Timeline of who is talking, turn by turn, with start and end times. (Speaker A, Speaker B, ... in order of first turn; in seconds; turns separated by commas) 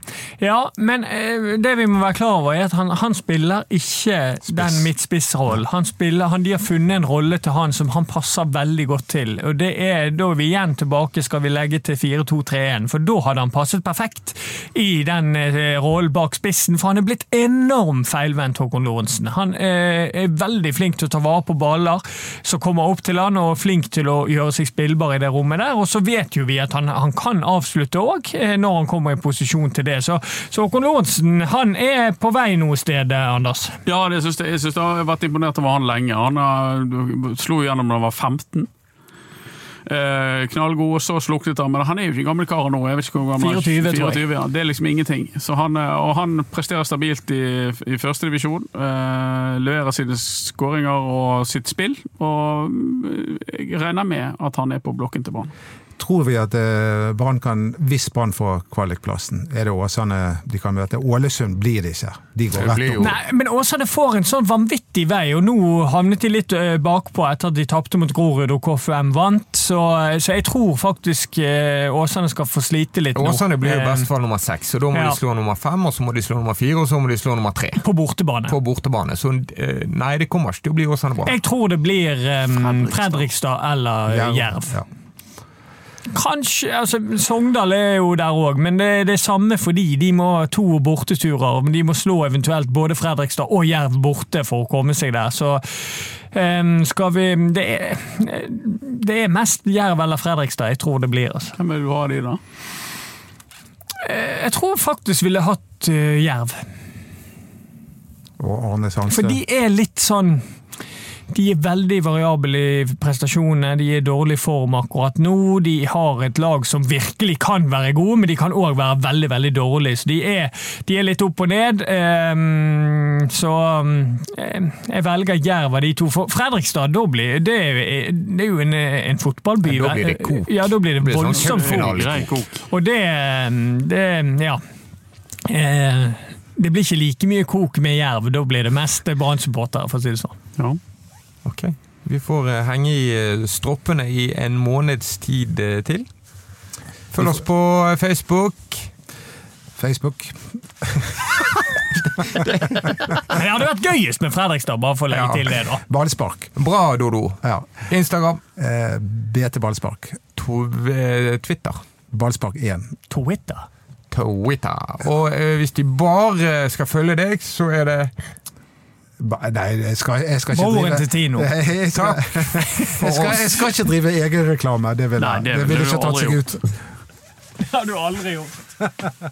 Speaker A: 0.4-33.8, Speaker B: 33.9-38.7, Speaker B: 39.9-55.5, Speaker A: 43.4-44.2, Speaker C: 56.0-63.1, Speaker D: 62.5-63.2, Speaker A: 63.0-74.1, Speaker D: 73.2-77.8, Speaker A: 74.9-75.2, Speaker A: 77.8-78.6, Speaker D: 78.5-81.3, Speaker A: 81.3-84.8, Speaker B: 82.6-83.2, Speaker C: 84.1-84.9, Speaker A: 86.1-101.6, Speaker B: 101.6-102.4, Speaker A: 104.0-106.6, Speaker C: 108.4-109.4, Speaker A: 109.1-110.4, Speaker A: 111.3-132.0, Speaker D: 129.7-132.3, Speaker B: 131.3-132.7, Speaker A: 132.7-134.6, Speaker A: 135.4-140.4, Speaker D: 141.4-146.1, Speaker D: 147.1-148.9, Speaker C: 149.8-151.4, Speaker A: 153.2-155.8, Speaker D: 155.1-155.5, Speaker C: 155.9-156.5, Speaker D: 156.6-158.4, Speaker C: 157.4-157.8, Speaker C: 158.6-160.2, Speaker D: 160.3-161.8, Speaker C: 162.1-162.9, Speaker A: 163.1-163.7, Speaker D: 164.1-168.1, Speaker C: 169.2-176.7, Speaker A: 170.5-171.5, Speaker D: 171.9-173.7, Speaker B: 175.2-176.5, Speaker A: 177.6-178.6